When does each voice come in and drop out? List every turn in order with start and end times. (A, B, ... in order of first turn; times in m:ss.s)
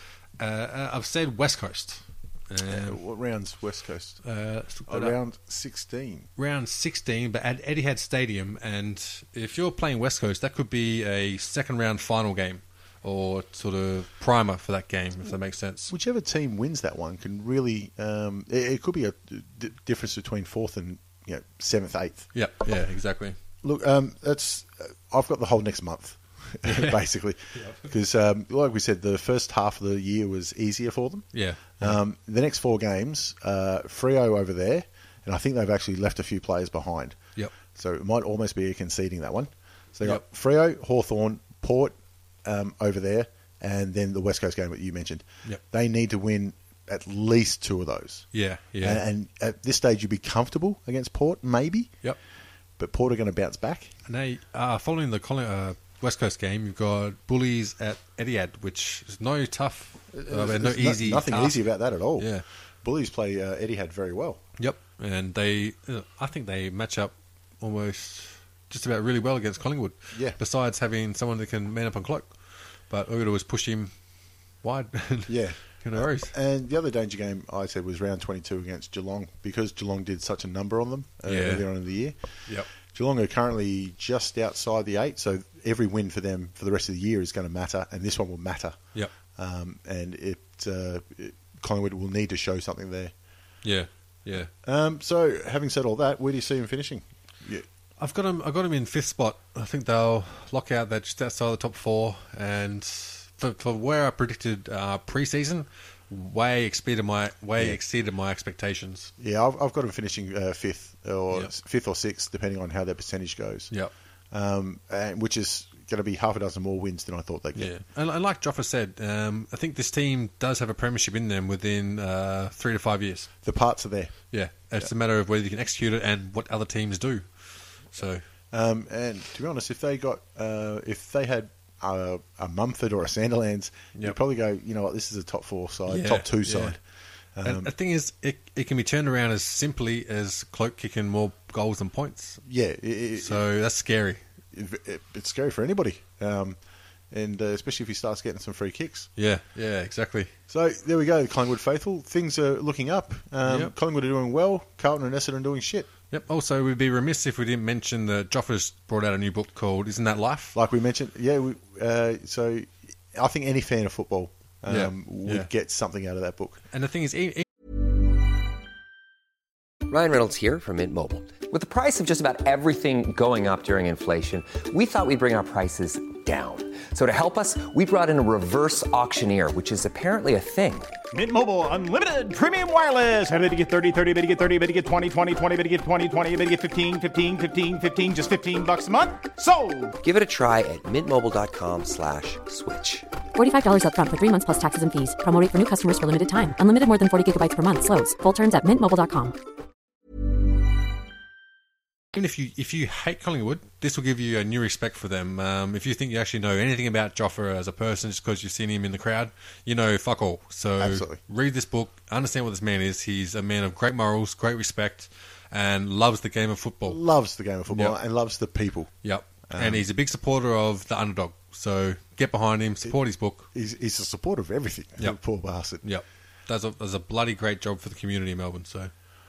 0:00.4-0:03.0 A
0:02.6-0:04.2 B
0:04.2-0:05.1 A
0:04.9-0:06.3 B
0:06.4-0:15.9 A
0:15.9-0:22.3 B
0:22.3-0:23.4 A
0:23.6-0:37.2 B
0:26.6-0:27.9 A
0:31.3-0:32.0 A
0:37.7-0:48.3 B
0:48.3-0:49.0 A
0:48.8-0:51.9 B
0:52.8-0:53.9 B
0:54.1-1:01.6 A
1:00.1-1:02.3 B
1:02.2-1:02.4 A
1:02.8-1:04.4 B
1:04.6-1:12.3 A
1:10.1-1:10.4 B
1:12.9-1:13.9 A
1:14.6-1:16.3 A
1:15.3-1:28.8 B
1:21.2-1:21.7 A
1:29.3-1:33.1 B
1:33.6-1:34.5 A
1:34.6-1:37.6 B
1:38.0-1:49.1 A
1:49.2-1:53.7 B
1:54.3-1:57.7 B
1:57.5-2:03.3 A
2:03.4-2:04.1 B
2:04.3-2:08.2 A
2:08.5-2:16.8 B
2:15.9-2:16.8 A
2:17.3-2:17.7 B
2:17.4-2:22.4 A
2:22.4-2:23.4 B
2:23.2-2:24.2 A
2:24.5-2:26.6 B
2:27.1-2:29.1 B
2:29.2-2:30.3 A
2:30.5-2:35.9 B
2:33.4-2:33.7 A
2:36.1-2:40.6 A
2:40.5-2:46.6 B
2:44.7-2:45.5 A
2:46.7-2:47.4 A
2:49.9-3:00.9 C
3:01.1-3:10.0 D
3:10.0-3:13.1 C
3:13.3-3:19.4 E
3:22.1-3:37.0 A
3:30.8-3:31.2 B
3:36.8-3:38.9 B
3:37.7-3:38.0 A
3:39.0-3:43.5 A
3:39.5-3:39.8 B
3:43.5-3:45.8 B
3:45.8-3:48.9 A